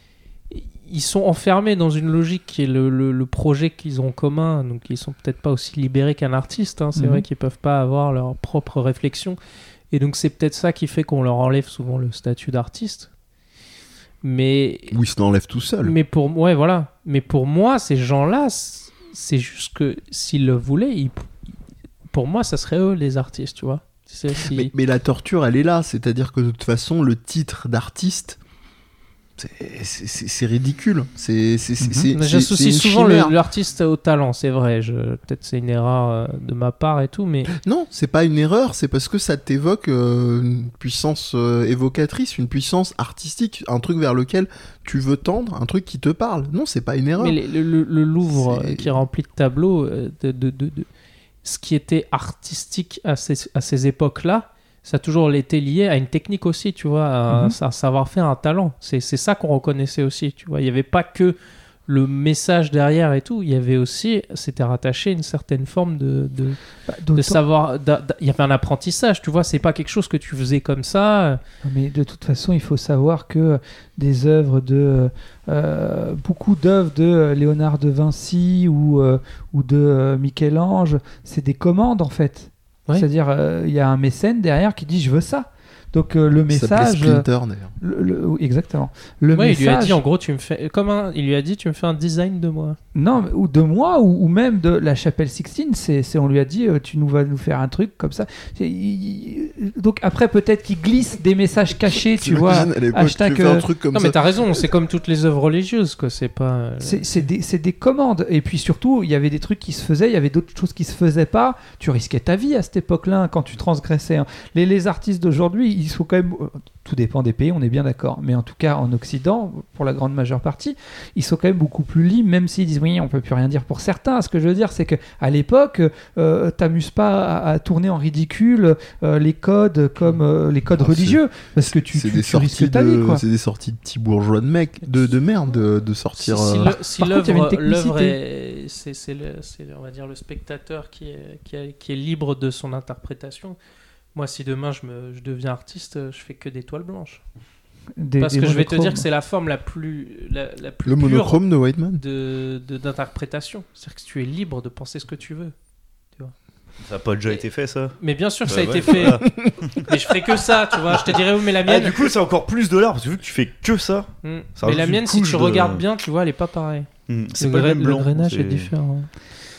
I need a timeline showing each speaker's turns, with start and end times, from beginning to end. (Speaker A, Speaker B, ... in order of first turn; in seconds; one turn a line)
Speaker A: 0.5-9.4
Speaker B: 7.0-7.2
Speaker A: 9.9-13.1
Speaker A: 14.2-15.0
Speaker C: 14.9-15.9
Speaker A: 15.8-21.3
Speaker A: 22.1-24.7
Speaker C: 24.4-28.4
Speaker C: 29.4-33.3
Speaker B: 31.8-32.1
Speaker A: 32.1-37.5
Speaker C: 37.5-47.4
Speaker A: 47.2-50.9
Speaker C: 48.3-48.9
Speaker A: 51.4-61.4
Speaker B: 57.3-57.5
Speaker A: 61.9-66.6
Speaker B: 66.9-67.4
Speaker A: 67.1-71.4
Speaker B: 71.6-87.2
Speaker C: 86.5-87.7
Speaker B: 87.8-90.0
Speaker A: 89.3-92.8
Speaker B: 93.0-103.7
Speaker C: 102.2-104.6
Speaker A: 103.9-107.0
Speaker B: 106.8-133.2
Speaker C: 130.8-136.7
Speaker A: 136.2-143.6
Speaker B: 137.0-138.2
Speaker A: 144.1-147.2
Speaker B: 148.0-149.0
Speaker A: 148.2-151.4
Speaker C: 150.8-152.0
Speaker A: 151.9-155.5
Speaker D: 156.8-159.9
Speaker A: 158.0-159.2
Speaker C: 159.0-159.6
Speaker A: 159.9-162.1
Speaker D: 160.9-165.8
Speaker A: 164.2-169.1
Speaker D: 167.1-168.7